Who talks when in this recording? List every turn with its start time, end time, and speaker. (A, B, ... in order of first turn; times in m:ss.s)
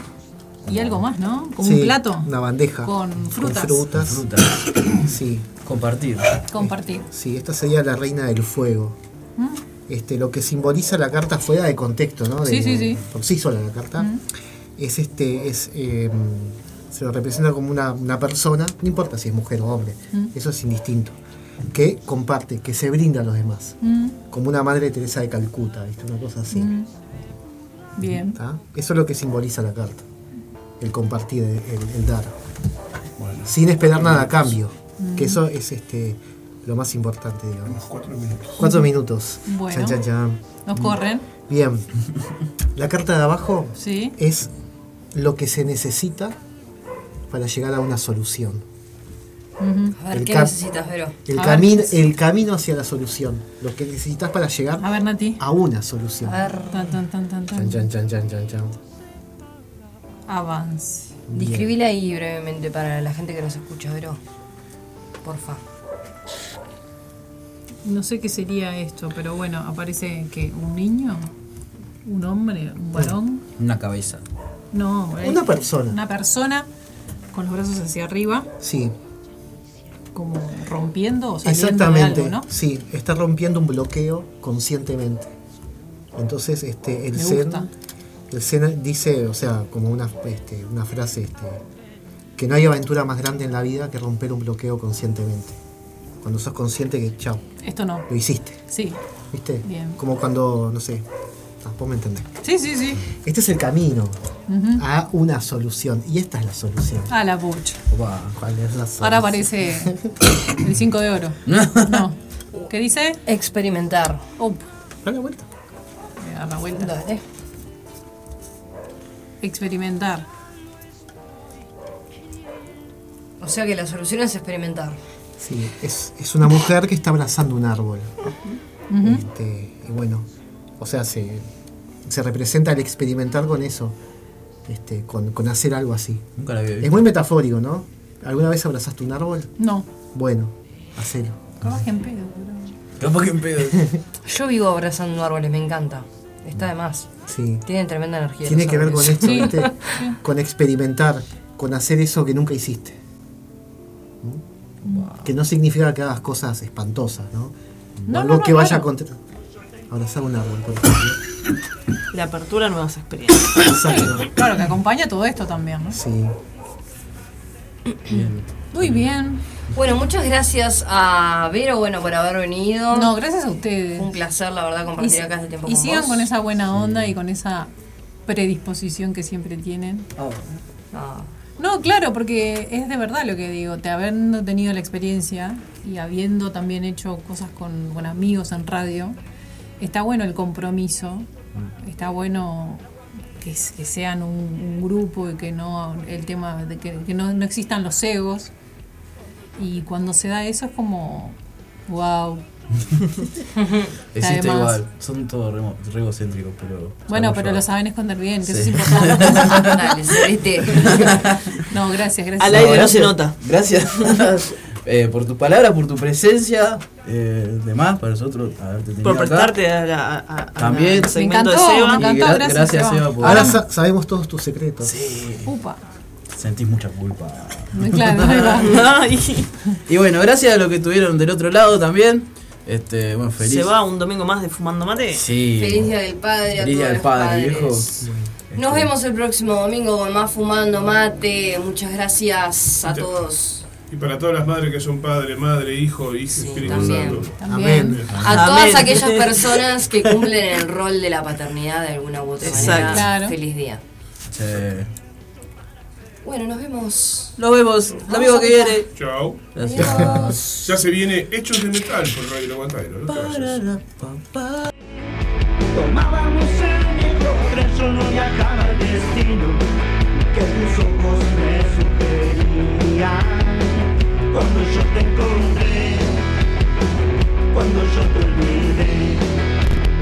0:00.6-0:03.8 A
0:00.7-0:00.9 B
0:01.6-0:04.2 C
0:03.9-0:05.0 B
0:05.0-0:05.5 C
0:05.6-0:06.4 B
0:06.5-0:07.1 A
0:06.5-0:09.0 C
0:09.9-0:14.1 C
0:12.4-0:13.0 A
0:14.8-0:21.2 C
0:21.7-0:23.8 C
0:23.8-0:24.2 A
0:24.3-0:26.7 C
0:26.5-0:26.9 A
0:28.0-0:28.4 A
0:28.2-0:30.0 C
0:30.8-0:32.4 C
0:33.2-0:33.5 D
0:33.4-0:37.8 C
0:35.0-0:35.4 A
0:37.7-0:38.6 D
0:38.6-0:38.9 A
0:38.6-0:40.8 C
0:39.4-0:40.0 A
0:40.6-0:41.3 A
0:41.4-0:41.9 C
0:42.7-0:44.5 C
0:43.8-0:44.2 A
0:45.1-0:46.4 C
0:47.3-0:48.6 C
0:49.6-0:50.0 A
0:50.0-0:51.2 E
0:50.1-0:50.5 C
0:51.2-0:56.5 C
0:51.3-0:52.1 A
0:54.8-0:55.4 A
0:56.2-0:57.0 E
0:56.6-0:57.9 A
0:57.5-0:58.8 C
1:00.3-1:01.1 A
1:01.3-1:01.7 C
1:01.3-1:04.2 E
1:05.2-1:05.6 E
1:07.8-1:11.3 A
1:12.0-1:13.4 A
1:13.6-1:14.2 B
1:14.7-1:16.7 A
1:15.2-1:16.0 C
1:17.3-1:18.5 A
1:18.6-1:18.9 C
1:20.1-1:22.5 A
1:21.4-1:25.3 C
1:26.1-1:27.7 C
1:27.1-1:27.7 A
1:28.3-1:31.6 C
1:32.4-1:35.6 C
1:36.2-1:37.4 C
1:37.6-1:38.1 A
1:38.1-1:38.6 C
1:38.6-1:39.0 A
1:39.3-1:41.0 C
1:39.6-1:40.0 A
1:41.6-1:42.4 C
1:42.4-1:43.0 A
1:43.1-1:44.2 C
1:44.5-1:44.8 A
1:44.7-1:47.1 C
1:47.1-1:47.8 A
1:47.9-1:48.4 B
1:48.3-1:50.1 C
1:49.0-1:50.0 A
1:50.5-1:53.2 A
1:51.4-1:52.1 B
1:53.2-1:54.2 E
1:54.4-1:54.6 A
1:55.0-1:55.5 C
1:56.2-1:56.9 A
1:56.7-1:57.2 E
1:59.4-2:00.2 A
2:03.4-2:05.0 E
2:05.4-2:08.2 C
2:08.9-2:09.2 A
2:09.0-2:10.3 C
2:10.8-2:11.5 C
2:12.0-2:14.0 C
2:14.6-2:19.5 C
2:16.4-2:17.0 B
2:19.6-2:19.8 A
2:20.1-2:21.8 C
2:21.6-2:22.7 A
2:23.0-2:23.9 B
2:23.7-2:24.0 C
2:24.2-2:27.1 E
2:27.2-2:27.6 C
2:27.6-2:30.0 E
2:28.4-2:33.0 C
2:29.2-2:30.2 A
2:34.8-2:35.1 A
2:35.2-2:37.5 C
2:38.1-2:39.2 C
2:38.1-2:38.9 A
2:39.9-2:41.2 C
2:42.1-2:43.5 F
2:43.6-2:44.3 C
2:43.9-2:46.0 A
2:45.9-2:46.4 C
2:48.7-2:49.4 A
2:49.7-2:53.1 E
2:52.9-2:54.1 A
2:53.9-2:56.3 E
2:55.0-2:57.7 A
2:56.7-2:57.2 B
2:58.3-3:00.1 A
3:00.2-3:00.4 B
3:00.9-3:01.3 E
3:01.6-3:09.2 A
3:09.8-3:11.3 A
3:11.8-3:12.8 A
3:13.4-3:18.5 A
3:19.6-3:22.4 A
3:23.6-3:24.0 E
3:24.1-3:27.6 B
3:24.2-3:24.8 A
3:27.1-3:29.7 A
3:28.4-3:29.8 B
3:29.4-3:31.2 E
3:30.7-3:31.6 B
3:31.6-3:32.9 A
3:32.4-3:33.4 F
3:32.5-3:39.5 B
3:34.0-3:34.4 F
3:39.0-3:42.0 F
3:40.6-3:41.1 B
3:41.1-3:43.6 A
3:41.9-3:43.6 B
3:43.2-3:45.0 C
3:44.8-3:45.5 B
3:45.4-3:45.8 A
3:46.3-3:48.9 B
3:47.7-3:48.9 A
3:48.6-3:49.5 F
3:49.8-3:53.7 B
3:53.4-3:55.2 F
3:55.1-3:55.9 B
3:55.5-4:03.6 E
3:56.6-3:58.9 B
3:58.0-3:58.3 C
4:03.9-4:07.3 D
4:06.3-4:07.3 E
4:06.6-4:07.1 B
4:07.4-4:08.0 A
4:07.4-4:08.1 C
4:08.1-4:08.6 B
4:08.2-4:09.6 F
4:08.2-4:13.8 E
4:12.4-4:13.0 F
4:12.4-4:13.0 B
4:12.8-4:13.3 A
4:14.3-4:14.9 B
4:16.2-4:17.4 E
4:17.4-4:18.9 B
4:17.9-4:18.2 D
4:18.1-4:18.8 E
4:18.9-4:19.4 D
4:19.5-4:20.7 B
4:19.6-4:20.6 E
4:20.6-4:23.6 D
4:23.1-4:24.7 B
4:25.7-4:29.6 G
4:30.3-4:33.8 G
4:34.3-4:36.2 G
4:37.5-4:39.2 G